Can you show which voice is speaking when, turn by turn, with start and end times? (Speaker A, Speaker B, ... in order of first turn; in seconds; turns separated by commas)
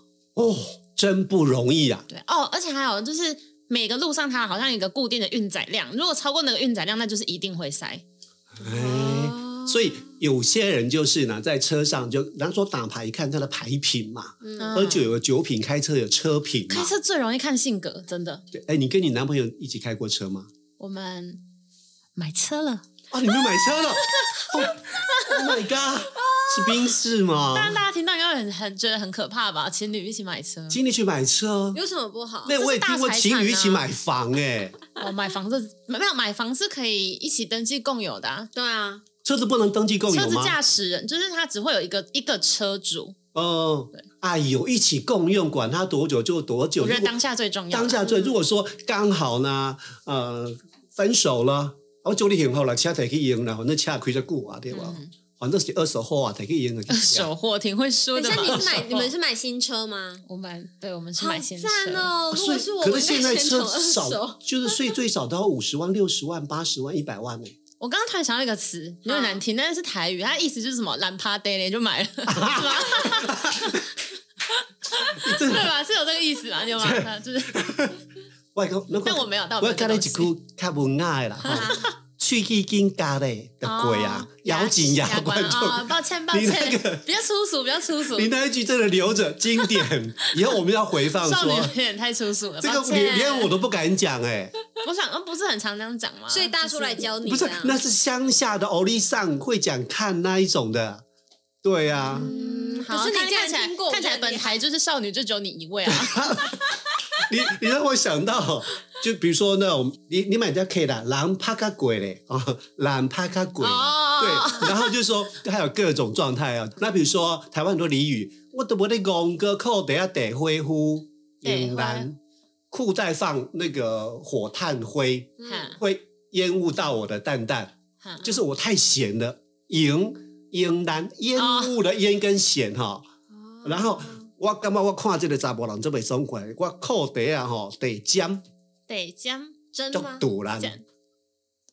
Speaker A: 0.3-2.1, Speaker B: 2.1-8.0, Speaker A: 8.5-16.9, Speaker C: 8.7-9.7, Speaker C: 14.4-14.7, Speaker B: 14.6-15.1, Speaker B: 16.7-18.5, Speaker A: 18.5-20.5, Speaker B: 20.8-21.4, Speaker B: 22.2-22.8, Speaker A: 23.1-27.8, Speaker B: 23.8-25.4, Speaker C: 26.1-26.9, Speaker B: 27.5-30.8, Speaker A: 30.7-31.8, Speaker C: 31.8-32.5, Speaker A: 32.5-34.8, Speaker B: 32.5-33.9, Speaker B: 35.0-38.5, Speaker C: 38.5-39.0, Speaker A: 39.2-40.6, Speaker B: 40.1-43.2, Speaker A: 43.3-47.1, Speaker B: 46.8-48.4, Speaker A: 47.7-57.3, Speaker B: 54.7-55.1, Speaker B: 56.9-59.1, Speaker C: 58.1-60.2, Speaker A: 58.5-58.7, Speaker B: 60.2-62.1, Speaker C: 61.2-64.8, Speaker A: 62.3-67.5, Speaker B: 67.8-73.9, Speaker C: 69.1-69.4, Speaker A: 72.3-73.8, Speaker B: 74.5-78.0, Speaker A: 75.2-75.7, Speaker A: 76.8-78.0, Speaker A: 78.5-87.1, Speaker B: 79.0-80.3, Speaker B: 81.4-81.9, Speaker C: 81.5-81.8, Speaker B: 83.6-88.3, Speaker A: 88.0-91.8, Speaker B: 91.1-93.5, Speaker A: 92.6-94.6, Speaker B: 94.8-97.1, Speaker C: 96.3-97.8, Speaker A: 97.2-101.0, Speaker A: 101.6-102.3, Speaker C: 102.1-104.6, Speaker B: 102.2-106.3, Speaker A: 105.9-106.6, Speaker A: 107.2-122.2, Speaker B: 113.6-114.9, Speaker B: 121.4-122.1, Speaker A: 122.7-133.1, Speaker C: 125.4-125.7, Speaker B: 125.5-125.8, Speaker B: 128.0-128.4, Speaker B: 131.3-131.8, Speaker C: 133.3-134.2, Speaker A: 133.7-138.4, Speaker B: 138.9-139.6, Speaker C: 139.7-140.2, Speaker A: 139.9-140.8, Speaker B: 140.6-140.8